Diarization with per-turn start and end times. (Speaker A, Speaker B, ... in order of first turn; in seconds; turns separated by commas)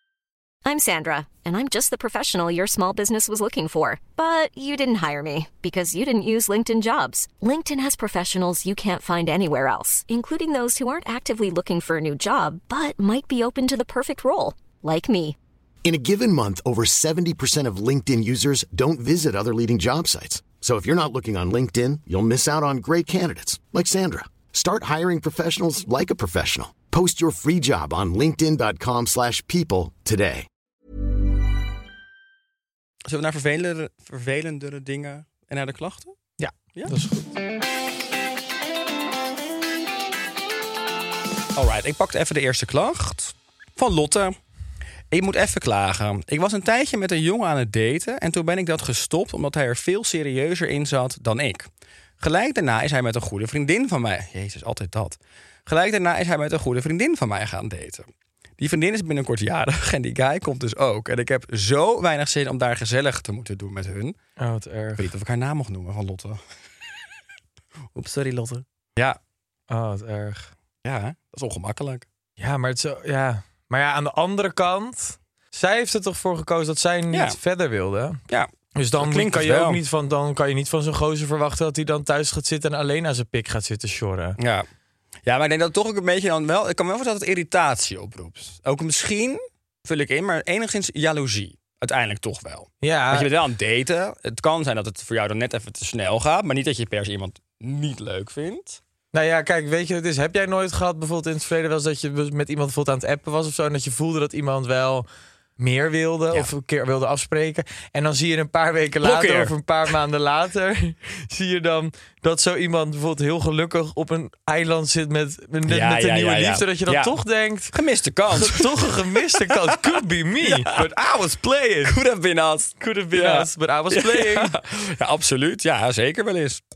Speaker A: 0.7-15.4, Speaker B: 15.8-30.5, Speaker C: 33.1-36.1, Speaker D: 36.4-37.3, Speaker C: 41.5-44.4, Speaker C: 45.1-64.2, Speaker D: 64.4-65.1, Speaker C: 65.0-66.4, Speaker C: 68.0-69.2, Speaker D: 69.7-70.5, Speaker C: 70.8-72.1, Speaker D: 72.4-78.2, Speaker C: 77.1-77.4, Speaker C: 78.3-79.8, Speaker D: 78.8-84.4, Speaker C: 84.4-84.7, Speaker C: 85.2-98.8, Speaker D: 92.8-93.3, Speaker D: 99.1-105.1, Speaker D: 105.6-117.8, Speaker C: 109.0-109.5, Speaker C: 115.7-117.2, Speaker C: 117.7-120.9, Speaker D: 118.3-122.0, Speaker C: 121.8-126.6, Speaker D: 122.8-124.5